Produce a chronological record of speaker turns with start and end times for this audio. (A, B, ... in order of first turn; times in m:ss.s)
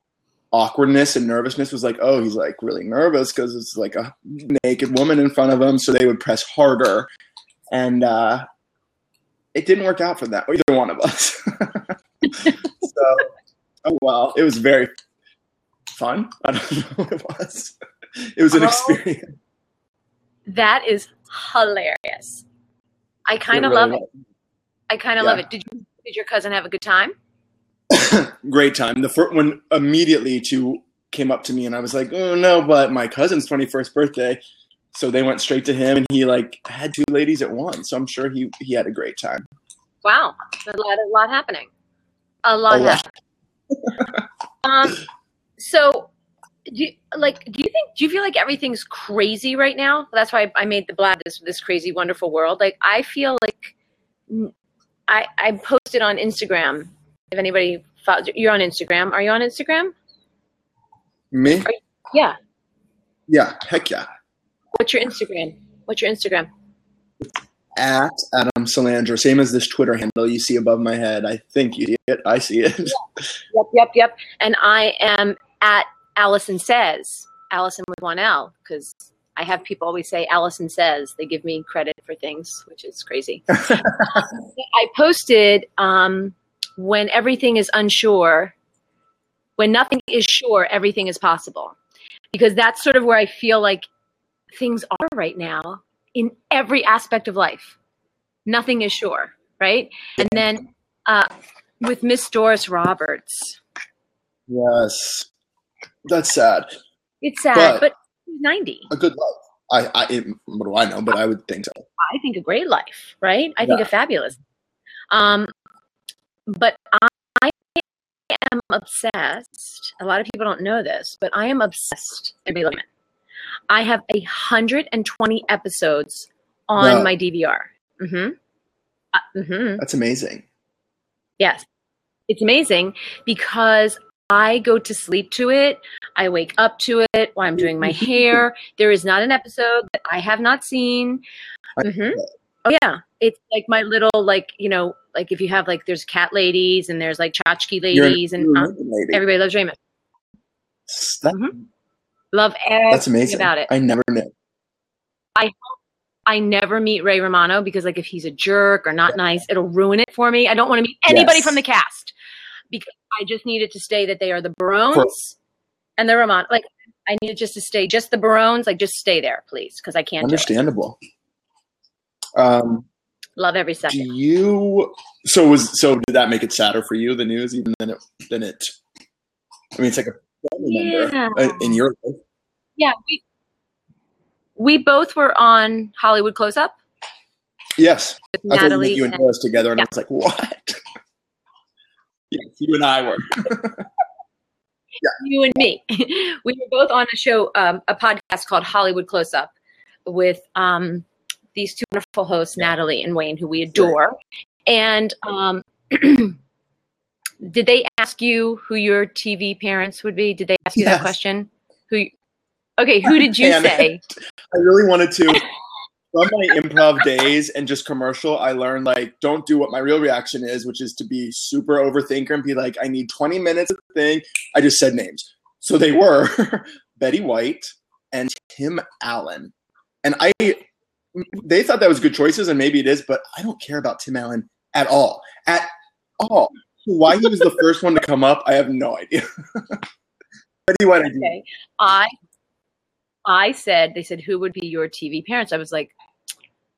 0:00.5-0:07.1 A
0:07.7-0:08.4 A
0:09.5-0:13.3 A
0:13.8-0:14.9 A
0:15.9-0:19.2 A
0:18.5-0:19.0 B
0:20.5-0:22.4 B
0:23.3-0:24.0 B
0:23.5-0:24.1 A
0:24.9-0:27.1 B
0:27.9-0:34.4 A
0:34.9-0:39.5 A
0:40.0-0:41.7 B
0:42.4-0:43.1 B
0:42.7-0:43.0 A
0:43.8-0:44.1 A
0:44.6-0:45.0 B
0:45.6-0:46.1 B
0:46.7-0:53.7 B
0:55.1-0:59.9 B
1:01.3-1:01.7 A
1:01.6-1:02.4 B
1:03.3-1:04.1 A
1:04.7-1:06.5 B
1:07.7-1:13.0 A
1:13.5-1:28.5 B
1:29.6-1:31.8 B
1:32.3-1:33.8 B
1:34.5-1:37.8 B
1:38.4-1:41.3 B
1:40.2-1:40.4 A
1:41.8-1:43.6 B
1:44.5-1:45.3 A
1:46.0-1:46.6 A
1:47.2-1:48.9 B
1:47.5-1:47.9 A
1:48.9-1:51.8 A
1:52.0-1:54.4 B
1:55.1-1:55.5 B
1:56.5-2:02.8 B
2:03.7-2:08.4 B
2:06.8-2:07.1 A
2:09.1-2:09.8 B
2:09.8-2:10.4 A
2:11.4-2:11.6 B
2:12.3-2:21.2 B
2:17.8-2:18.4 A
2:21.8-2:22.3 A
2:21.8-2:29.8 B
2:27.9-2:29.2 A
2:30.9-2:31.5 A
2:32.3-2:33.7 B
2:32.9-2:34.3 A
2:35.4-2:42.1 B
2:41.1-2:41.6 A
2:42.7-2:45.4 B
2:46.0-2:50.5 B
2:50.2-2:51.0 A
2:52.4-2:52.9 A
2:53.4-2:54.1 B
2:53.9-2:58.7 A
2:59.8-3:02.2 A
3:00.6-3:01.8 B
3:02.8-3:03.2 B
3:04.6-3:06.8 B
3:07.8-3:10.8 A
3:08.3-3:09.8 B
3:12.3-3:13.8 A
3:15.2-3:19.5 B
3:20.0-3:26.4 B
3:27.4-3:32.1 B
3:30.8-3:31.1 A
3:32.8-3:34.0 B
3:33.0-3:33.9 A
3:34.5-3:35.4 A
3:36.1-3:49.5 A
3:50.0-3:50.6 A
3:51.1-3:59.8 A
4:00.6-4:01.3 A
4:01.2-4:02.1 B
4:03.2-4:05.9 B